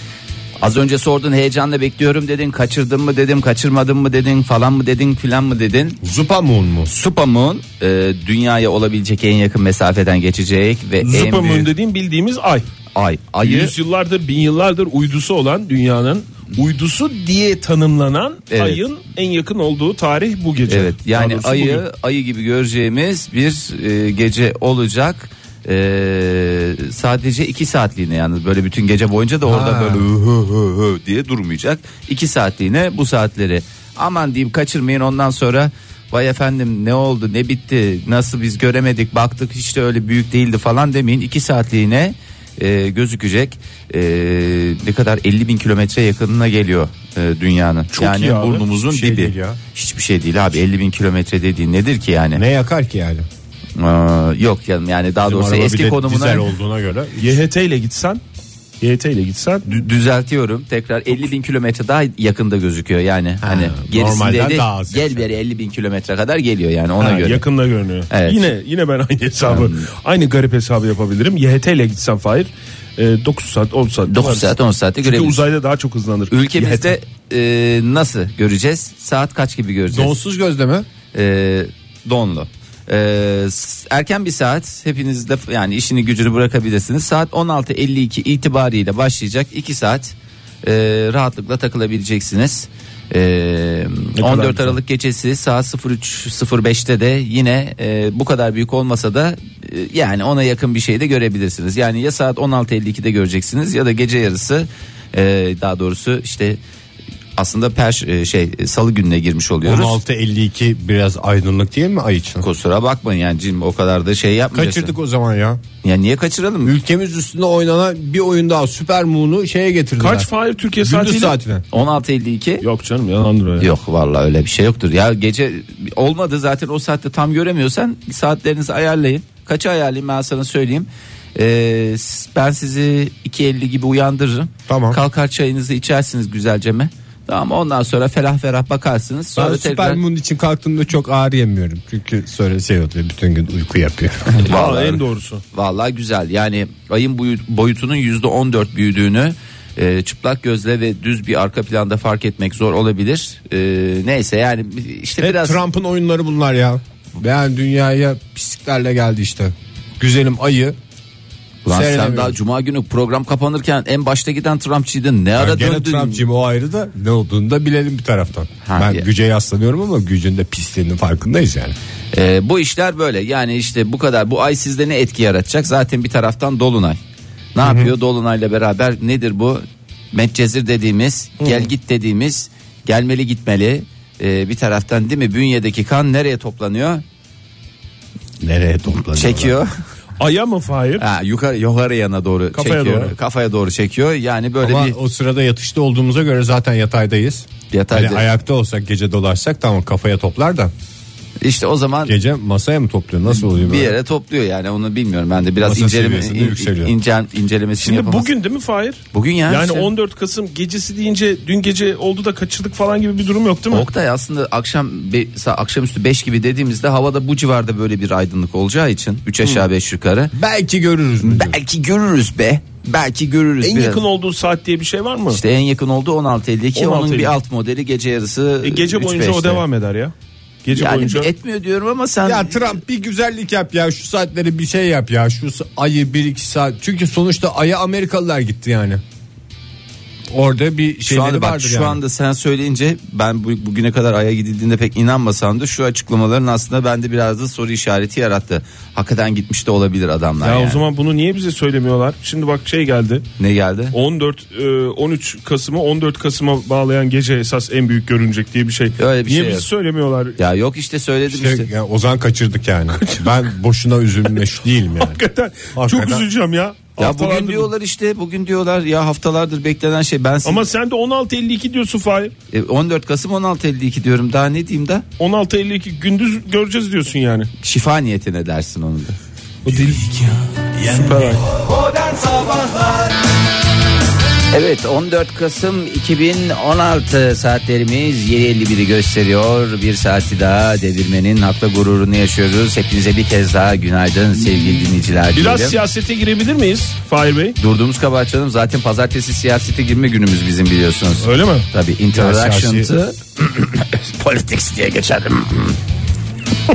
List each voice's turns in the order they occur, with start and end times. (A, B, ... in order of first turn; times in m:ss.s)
0:00.6-0:06.0 A
0:06.0-0:06.9 B
0:06.9-0:11.7 A
0:11.0-0:12.7 C
0:13.0-0:13.7 A
0:13.4-0:21.8 C
0:18.5-0:18.8 A
0:20.7-0:52.4 A
0:29.5-0:30.1 B
0:47.9-0:48.6 C
0:48.8-0:49.6 B
0:52.4-0:53.3 B
0:53.8-0:56.5 A
0:55.3-0:57.4 B
0:57.2-0:58.2 C
0:58.8-0:59.7 C
0:59.7-1:07.4 A
1:03.4-1:05.3 B
1:07.0-1:17.0 C
1:08.1-1:08.5 A
1:09.4-1:09.9 A
1:14.1-1:15.4 A
1:16.3-1:20.2 A
1:19.9-1:20.9 B
1:21.1-1:46.6 A
1:34.2-1:34.8 C
1:47.4-1:50.0 A
1:49.6-1:52.4 B
1:52.4-1:54.9 A
1:54.5-1:55.6 B
1:55.8-1:56.8 A
1:56.6-2:00.3 B
2:00.0-2:01.4 C
2:00.8-2:01.6 B
2:01.7-2:02.6 A
2:02.6-2:03.7 C
2:03.6-2:20.0 A
2:14.7-2:15.0 B
2:19.4-2:24.4 B
2:24.3-2:25.0 A
2:24.4-2:25.4 C
2:25.5-2:35.6 A
2:35.2-2:40.8 B
2:41.6-2:46.2 A
2:41.7-2:42.4 B
2:45.4-2:51.8 B
2:48.6-2:49.1 A
2:52.1-2:57.0 A
2:57.6-3:07.0 A
2:57.6-2:57.9 B
3:01.4-3:01.7 C
3:08.4-3:09.6 B
3:09.2-3:09.8 A
3:10.2-3:11.0 C
3:11.0-3:15.0 A
3:12.5-3:13.2 C
3:14.6-3:20.7 B
3:17.7-3:18.3 A
3:21.4-3:22.2 A
3:22.1-3:24.0 B
3:23.3-3:28.3 A
3:25.6-3:26.9 B
3:27.8-3:33.9 C
3:29.1-3:29.9 A
3:33.7-3:40.3 A
3:40.3-3:41.6 B
3:41.2-3:44.0 A
3:43.6-3:45.4 C
3:45.3-3:49.6 A
3:46.8-3:47.3 C
3:48.6-3:50.1 C
3:50.6-3:51.3 C
3:50.7-3:52.8 A
3:52.2-3:59.0 B
4:00.3-4:02.0 B
4:01.1-4:10.8 A
4:10.4-4:13.2 C
4:13.4-4:14.0 A
4:13.9-4:20.4 C
4:19.0-4:19.7 A
4:20.4-4:21.7 A
4:21.3-4:25.2 B
4:25.0-4:27.7 C
4:25.8-4:26.2 B
4:27.0-4:30.7 A
4:30.4-4:32.3 C
4:32.5-4:35.0 A
4:35.2-4:37.5 C
4:37.6-4:39.2 A
4:39.6-4:41.5 C
4:41.6-4:43.2 A
4:44.5-4:55.8 A
4:55.3-4:57.6 C
4:57.6-5:05.8 A
5:01.2-5:01.7 C
5:02.1-5:02.9 B